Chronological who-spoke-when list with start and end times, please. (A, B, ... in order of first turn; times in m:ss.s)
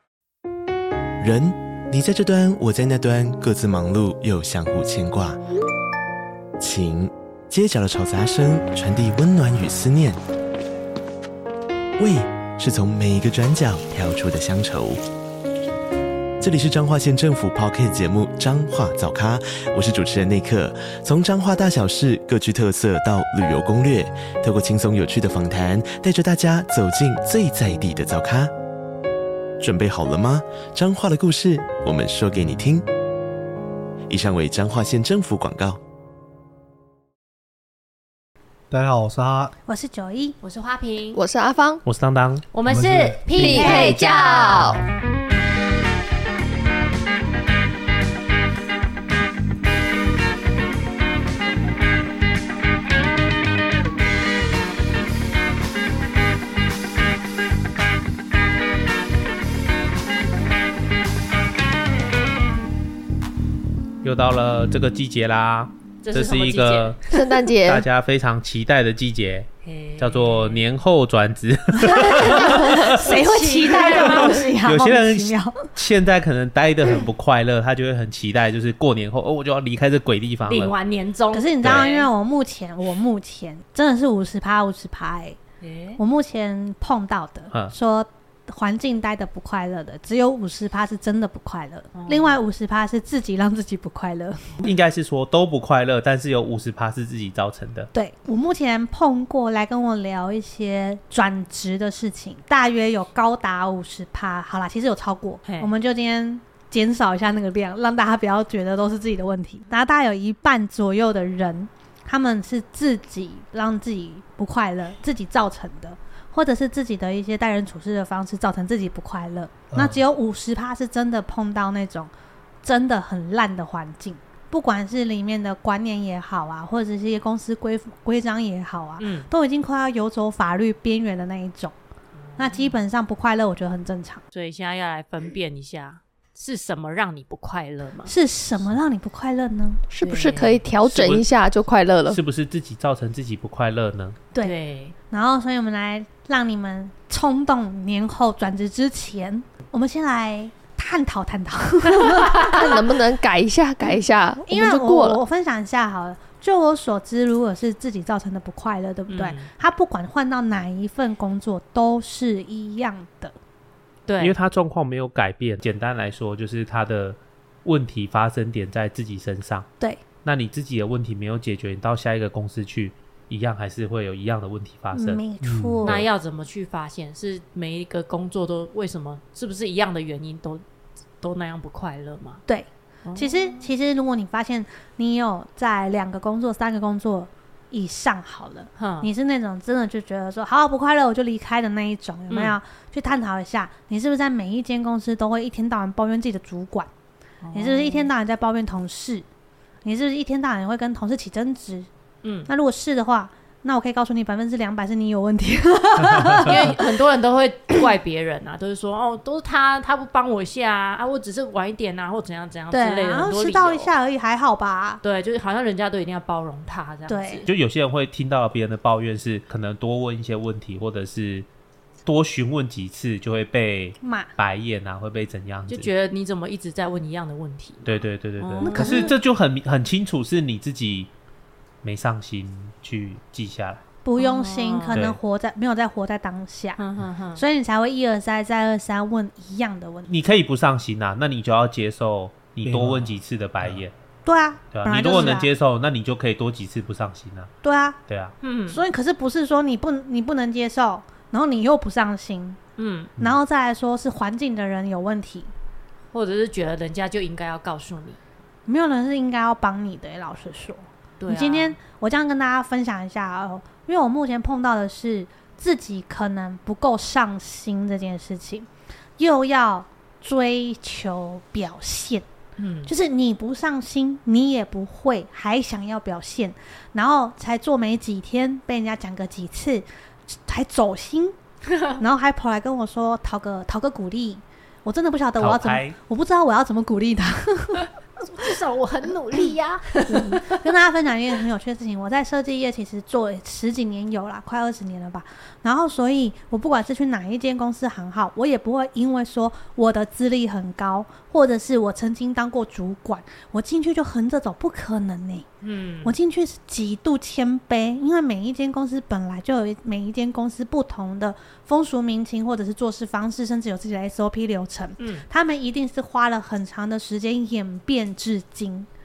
0:01.2-0:05.4 A
0:06.6-0:10.2 A
0:12.0-0:15.0 A
0:16.4-0:28.5 A
0:29.6-0:32.8 A
0:34.1-0:35.8 A
0:38.7-0:39.5 B
0:39.6-0:40.4 C
0:40.4-0:41.2 D
0:41.1-0:41.8 E
0:41.8-0:42.5 F
0:42.5-0:44.8 D
0:42.6-0:43.6 B
0:43.4-0:44.8 E
0:43.5-0:44.2 F
1:04.0-1:07.0 F
1:06.0-1:07.0 D
1:07.1-1:07.8 E
1:07.6-1:13.0 F
1:09.6-1:10.6 D
1:11.8-1:15.7 C
1:12.3-1:14.4 D
1:14.0-1:20.8 F
1:20.4-1:22.1 D
1:21.3-1:25.4 C
1:21.6-1:21.9 F
1:25.6-1:26.0 D
1:26.0-1:34.6 C
1:31.9-1:32.4 D
1:34.6-1:37.9 F
1:37.9-2:02.1 C
1:45.4-1:45.7 D
1:59.7-2:00.0 B
2:02.6-2:11.7 C
2:09.0-2:09.3 D
2:12.2-2:12.8 D
2:12.4-2:14.2 C
2:14.3-2:18.1 D
2:18.0-2:19.8 C
2:19.9-2:22.2 E
2:20.0-2:20.6 D
2:20.8-2:21.2 F
2:22.1-2:24.2 F
2:24.4-2:25.0 D
2:25.1-2:32.8 C
2:32.2-2:35.2 E
2:34.4-2:43.3 C
2:39.1-2:39.5 D
2:44.1-2:44.4 D
2:44.2-2:49.7 F
2:50.2-2:55.3 F
2:54.9-2:56.0 C
2:55.4-2:55.8 B
2:55.8-3:00.6 D
3:01.2-3:02.4 D
3:02.5-3:16.9 C
3:03.0-3:03.7 D
3:08.8-3:09.1 D
3:12.3-3:12.6 D
3:17.4-3:18.1 D
3:17.5-3:19.2 C
3:19.8-3:21.9 C
3:22.2-3:22.5 D
3:22.5-3:26.8 C
3:26.3-3:33.9 D
3:32.7-3:35.0 C
3:35.0-3:37.5 D
3:37.1-3:37.4 C
3:37.4-3:41.5 F
3:42.0-3:45.9 F
3:44.0-3:44.3 C
3:45.7-3:49.1 D
3:47.8-3:51.1 F
3:48.6-3:49.1 C
3:51.8-3:53.8 F
3:54.0-3:56.8 C
3:54.2-3:55.0 D
3:54.9-3:55.2 F
3:56.8-3:57.4 D
3:57.3-4:00.1 C
4:00.1-4:03.9 F
4:02.6-4:03.8 B
4:04.2-4:05.5 C
4:04.7-4:07.5 F
4:07.6-4:08.0 C
4:08.1-4:08.3 F
4:08.4-4:08.8 D
4:08.7-4:12.6 C
4:12.8-4:13.1 D
4:13.2-4:15.5 C
4:16.1-4:18.2 D
4:18.7-4:32.2 C
4:21.2-4:21.8 D
4:32.6-4:32.9 D
4:32.8-4:41.3 C
4:42.0-4:47.9 C
4:45.4-4:46.0 F
4:48.2-4:50.6 D
4:50.1-5:05.5 C
5:05.6-5:06.1 D
5:06.0-5:18.9 C
5:15.0-5:15.2 D